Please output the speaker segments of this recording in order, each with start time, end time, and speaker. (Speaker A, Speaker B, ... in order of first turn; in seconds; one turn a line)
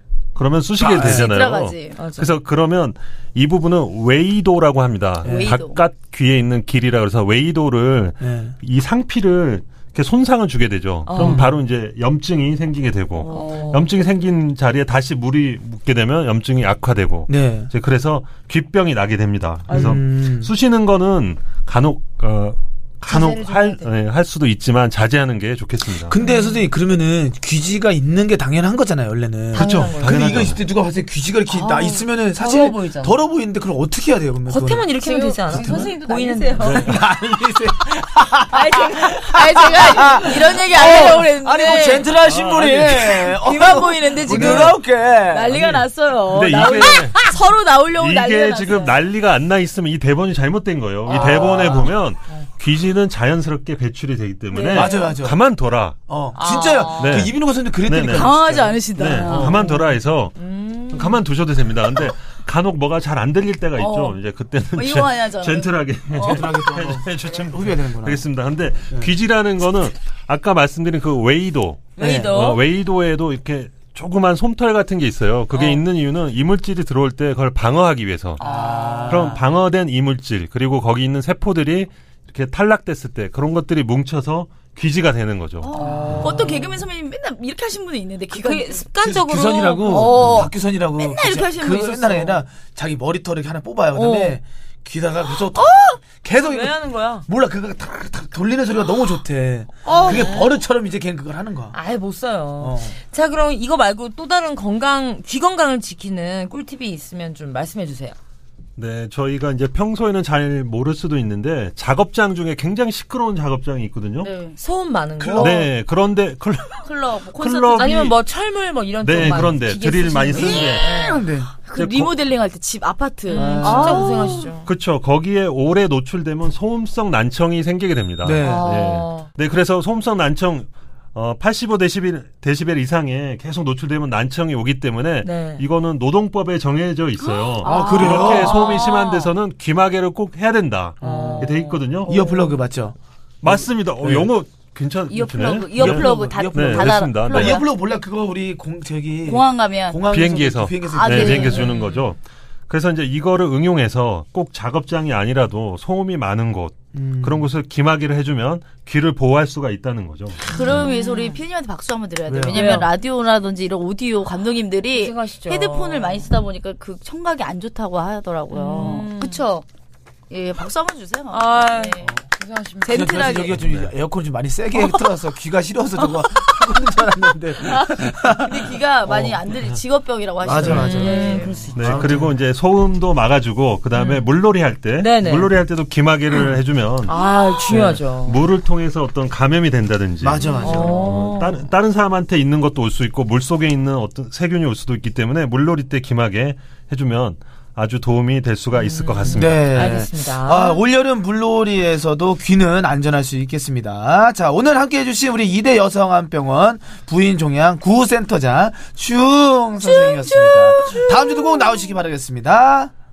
Speaker A: 0.3-26.1
Speaker B: 0.8-1.3
Speaker C: 1.0-2.0
Speaker D: 2.0-2.4
Speaker B: 5.2-5.5
Speaker C: 5.2-5.8
Speaker B: 8.2-8.5
Speaker D: 11.1-11.4
Speaker B: 11.2-11.5
Speaker C: 13.2-13.6
Speaker D: 13.3-13.9
Speaker B: 17.3-17.7
Speaker B: 19.7-20.5
Speaker D: 19.7-20.0
Speaker D: 23.1-23.9
Speaker B: 26.0-34.9
Speaker D: 26.2-26.6
Speaker D: 29.5-30.4
Speaker A: 29.5-30.6
Speaker C: 31.5-32.0
Speaker D: 32.4-33.2
Speaker D: 34.5-36.9
Speaker C: 35.0-36.9
Speaker B: 35.5-35.9
Speaker B: 36.6-45.8
Speaker C: 38.5-42.1
Speaker A: 42.2-43.2
Speaker C: 43.0-49.0
Speaker A: 44.3-44.7
Speaker A: 45.5-47.4
Speaker A: 47.9-56.0
Speaker B: 51.1-51.9
Speaker C: 54.5-55.1
Speaker B: 54.7-55.4
Speaker B: 56.1-59.8
Speaker D: 56.3-57.3
Speaker A: 57.0-57.3
Speaker A: 57.8-58.3
Speaker C: 58.1-59.6
Speaker A: 58.9-60.4
Speaker D: 60.4-61.2
Speaker A: 60.9-78.4
Speaker C: 63.8-64.2
Speaker C: 64.8-66.7
Speaker B: 66.2-68.2
Speaker D: 72.0-72.6
Speaker B: 72.0-72.5
Speaker D: 75.5-75.8
Speaker D: 78.4-79.4
Speaker B: 78.4-79.4
Speaker A: 79.1-85.7
Speaker C: 85.6-88.8
Speaker D: 85.7-86.8
Speaker B: 85.9-86.5
Speaker D: 88.3-90.2
Speaker B: 89.0-101.8
Speaker C: 89.8-92.4
Speaker C: 93.9-94.4
Speaker C: 95.4-96.0
Speaker D: 96.3-97.2
Speaker D: 99.8-100.5
Speaker C: 99.9-100.3
Speaker D: 101.7-108.1
Speaker B: 102.6-103.0
Speaker A: 108.8-114.3
Speaker C: 114.2-114.6
Speaker D: 114.5-115.7
Speaker B: 115.2-115.7
Speaker A: 115.4-118.2
Speaker C: 116.8-118.0
Speaker D: 117.7-121.2
Speaker A: 119.0-120.9
Speaker B: 120.3-121.5
Speaker C: 121.7-124.5
Speaker A: 121.7-122.1
Speaker D: 123.3-124.7
Speaker B: 123.3-124.1
Speaker A: 124.6-142.1
Speaker B: 128.2-128.9
Speaker D: 128.4-129.3
Speaker D: 135.2-135.6
Speaker C: 137.3-139.1
Speaker B: 137.6-138.6
Speaker D: 137.7-139.3
Speaker B: 141.0-141.5
Speaker D: 141.0-141.8
Speaker C: 142.1-142.6
Speaker B: 142.1-144.3
Speaker A: 143.4-147.6
Speaker C: 145.1-147.7
Speaker B: 145.7-151.7
Speaker C: 149.2-150.0
Speaker A: 150.1-152.2
Speaker C: 150.9-151.7
Speaker D: 151.4-152.1
Speaker A: 152.7-160.5
Speaker B: 156.9-157.5
Speaker C: 160.4-169.6
Speaker D: 160.5-161.4
Speaker B: 162.3-162.8
Speaker D: 162.5-162.9
Speaker D: 164.9-166.3
Speaker D: 168.5-169.4
Speaker C: 170.3-172.1
Speaker D: 171.3-173.3
Speaker C: 172.8-173.6
Speaker B: 172.8-179.4
Speaker A: 173.6-173.9
Speaker C: 174.7-175.0
Speaker C: 177.6-181.6
Speaker B: 180.4-182.3
Speaker D: 180.6-182.3
Speaker A: 181.8-187.2
Speaker D: 183.9-184.2
Speaker D: 185.0-185.5
Speaker D: 187.1-188.4
Speaker A: 187.7-199.7
Speaker B: 190.2-191.1
Speaker D: 190.6-191.6
Speaker D: 198.7-200.8
Speaker B: 199.3-212.9
Speaker C: 209.9-211.8